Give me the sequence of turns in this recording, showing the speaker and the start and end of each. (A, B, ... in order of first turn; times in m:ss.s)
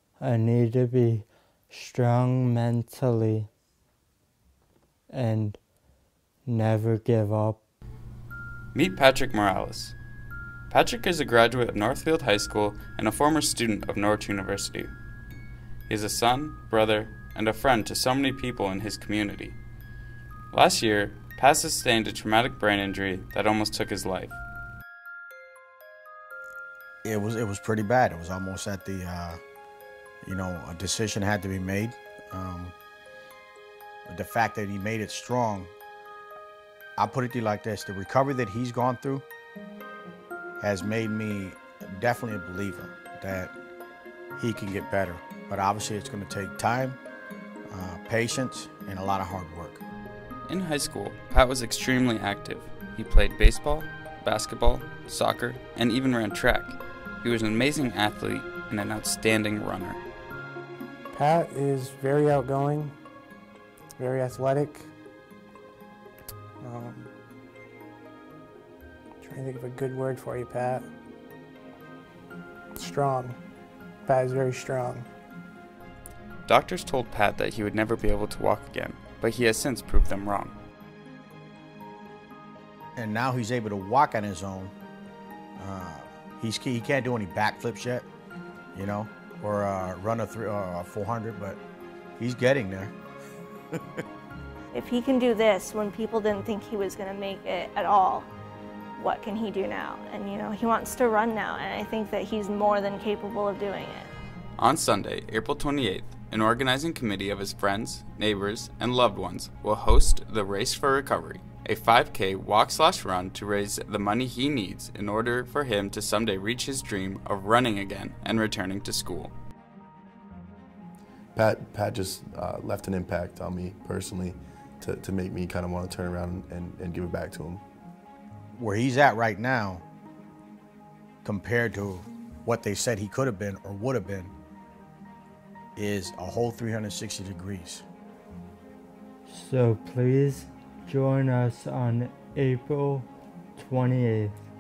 0:00.2-0:03.5 A
0:05.1-0:05.6 A
0:06.5-0:07.6 A
0:08.7-0:10.0 B
0:10.7-0:14.9 B
0:15.9-0:19.6 B
0:20.5-0:24.4 B
0:27.0-0:29.4 C
0:30.2-0:32.8 C
0:34.1-0:35.7 C
0:37.0-0:39.3 C
0:40.6-0:43.6 C
0:44.4-0:47.0 C
0:47.7-0:49.8 C
0:50.5-1:00.0 B
1:01.1-1:03.0 D
1:04.0-1:04.9 D
1:06.6-1:07.1 D
1:09.2-1:10.9 D
1:12.7-1:13.4 D
1:14.0-1:15.1 D
1:16.5-1:20.6 B
1:23.0-1:24.7 C
1:25.6-1:28.1 C
1:28.7-1:31.6 C
1:32.2-1:32.9 C
1:34.7-1:38.3 E
1:39.0-1:44.1 E
1:44.6-1:59.3 B
2:01.4-2:07.6 F
2:08.6-2:09.8 C
2:11.2-2:14.3 C
2:15.8-2:17.8 C
2:19.3-2:24.4 A